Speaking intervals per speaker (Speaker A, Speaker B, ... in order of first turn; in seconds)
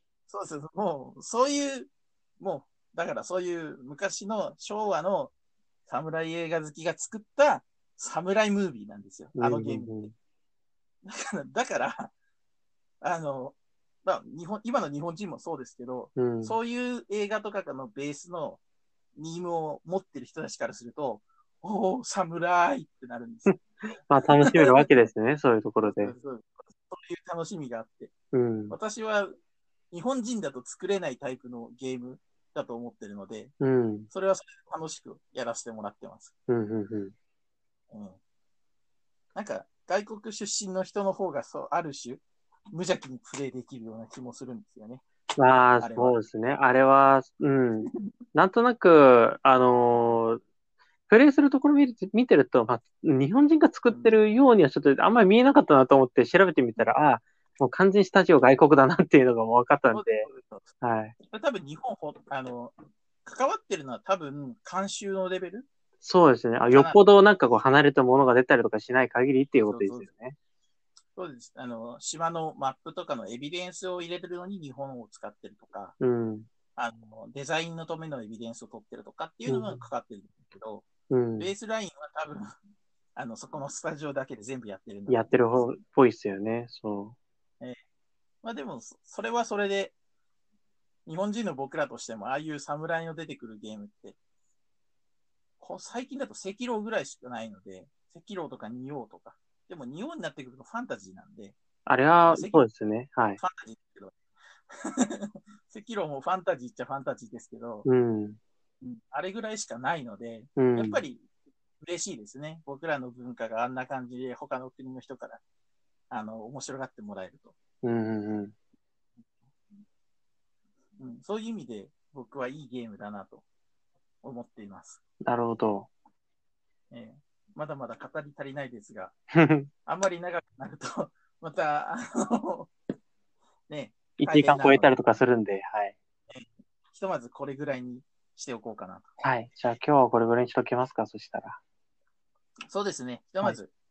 Speaker A: 0.3-5.3, 5.9-10.1, 11.0-12.1, 13.0-18.6, 19.1-23.6, 24.4-24.9, 25.9-28.1, 28.7-29.4, 29.9-33.5, 34.1-36.3, 37.9-38.2, 39.3-45.0, 45.8-46.2, 59.9-60.7, 61.2-65.7, 66.7-67.0, 69.6-70.1, 71.2-76.0, 76.8-80.8, 81.4-82.5, 83.2-85.7, 88.4-89.9, 91.0-94.2, 95.6-101.5, 102.3-102.7, 103.4-104.2, 104.7-107.8, 109.1-111.2, 111.8-115.4, 116.1-117.6, 121.0-123.4, 124.2-125.0, 126.9-129.1, 129.8-132.7, 133.7-135.0, 136.3-139.1, 142.7-143.7
Speaker B: 9.3-10.1, 16.1-16.6, 24.1-26.1, 28.3-28.8, 33.6-34.1, 36.5-37.1, 45.4-50.4, 51.1-60.3, 60.8-61.1, 66.0-70.3, 76.0-76.5, 79.5-79.8, 81.1-81.5, 85.1-87.1, 101.8-103.4, 107.8-108.4, 110.6-111.0, 117.8-118.5, 125.2-125.9, 129.3-129.7, 134.2-135.9, 139.2-141.6